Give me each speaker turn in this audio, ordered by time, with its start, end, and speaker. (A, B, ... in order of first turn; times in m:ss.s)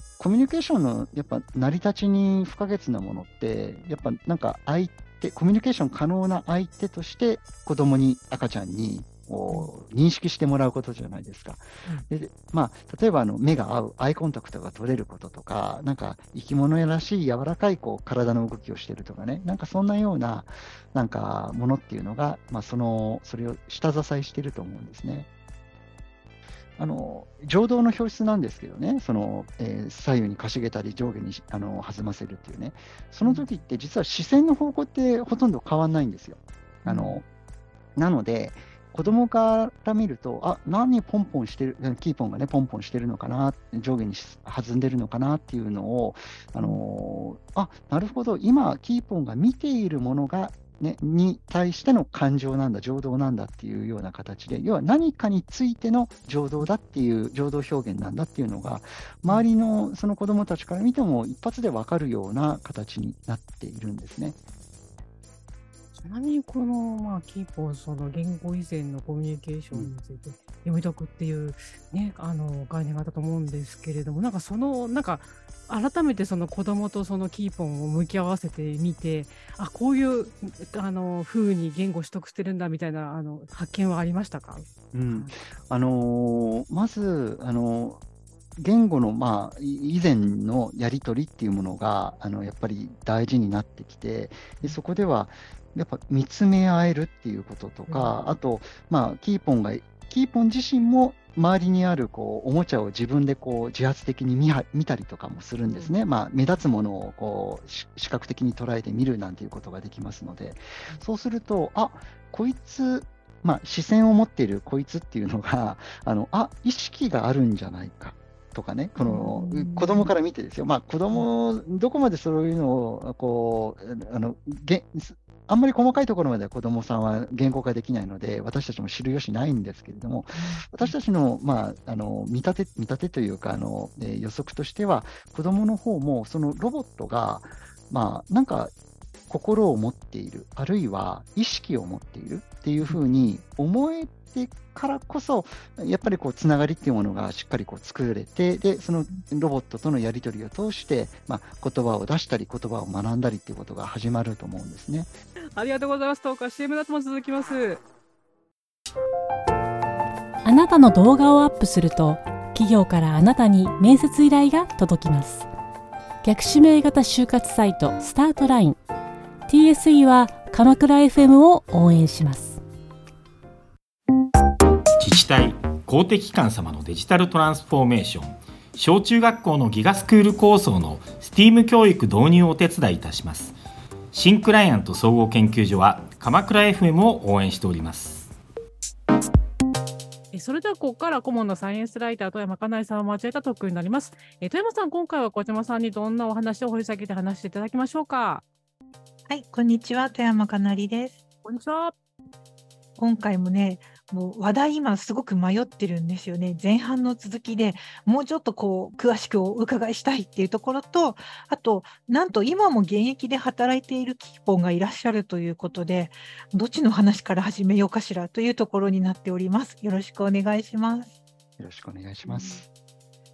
0:00.2-0:25.3 A
0:26.8-0:37.2 A
0:33.2-0:33.5 B
0:36.8-0:37.2 B
0:38.0-1:04.4 A
1:05.9-1:25.3 B
1:24.9-1:28.0 A
1:28.6-2:18.7 A
1:37.9-1:38.2 B
1:59.0-2:00.1 C
2:10.4-2:10.9 C
2:19.3-2:35.1 A
2:35.5-2:37.8 B
2:40.4-2:45.5 D
2:46.2-2:48.8 D
2:49.5-2:52.6 D
2:55.0-3:03.6 E
3:04.1-3:08.3 E
3:10.3-3:18.4 B
3:19.3-3:21.2 C
3:21.4-3:21.9 B
3:23.0-3:41.2 C
3:41.6-3:42.7 A
3:42.2-3:42.6 C